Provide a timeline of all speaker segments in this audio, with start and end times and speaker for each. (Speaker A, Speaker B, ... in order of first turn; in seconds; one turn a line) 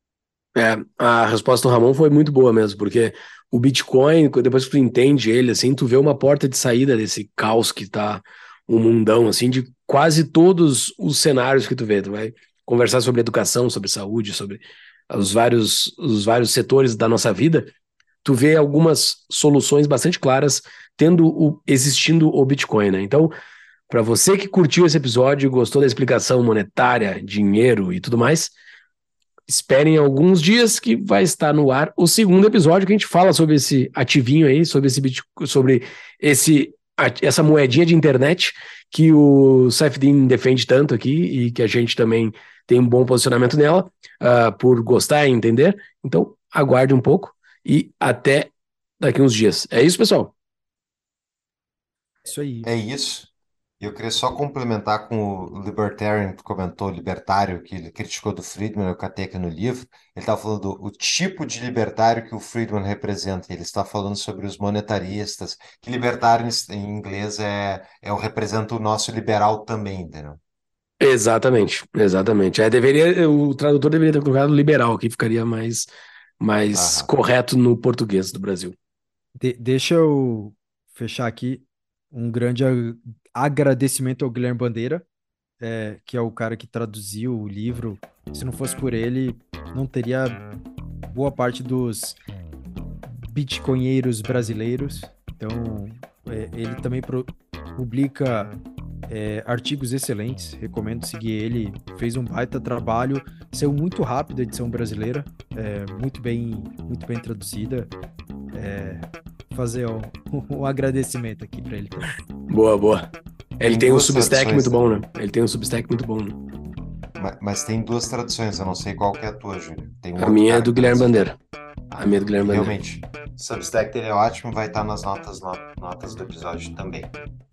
Speaker A: 0.6-17.7
Speaker A: 18.2-23.3
Speaker A: 23.9-28.5
Speaker A: 29.5-50.3
Speaker B: 52.2-52.7
Speaker C: 52.6-70.4
Speaker A: 71.0-75.9
Speaker A: 76.4-78.7
Speaker C: 76.7-77.1
Speaker B: 79.4-85.0
Speaker B: 85.6-90.4
Speaker B: 91.1-92.2
Speaker B: 93.2-98.5
Speaker B: 99.1-107.9
Speaker B: 108.5-112.1
Speaker A: 112.5-116.4
Speaker C: 113.6-114.8
Speaker C: 117.2-121.1
Speaker A: 120.2-121.3
Speaker C: 121.9-127.1
Speaker A: 122.0-122.7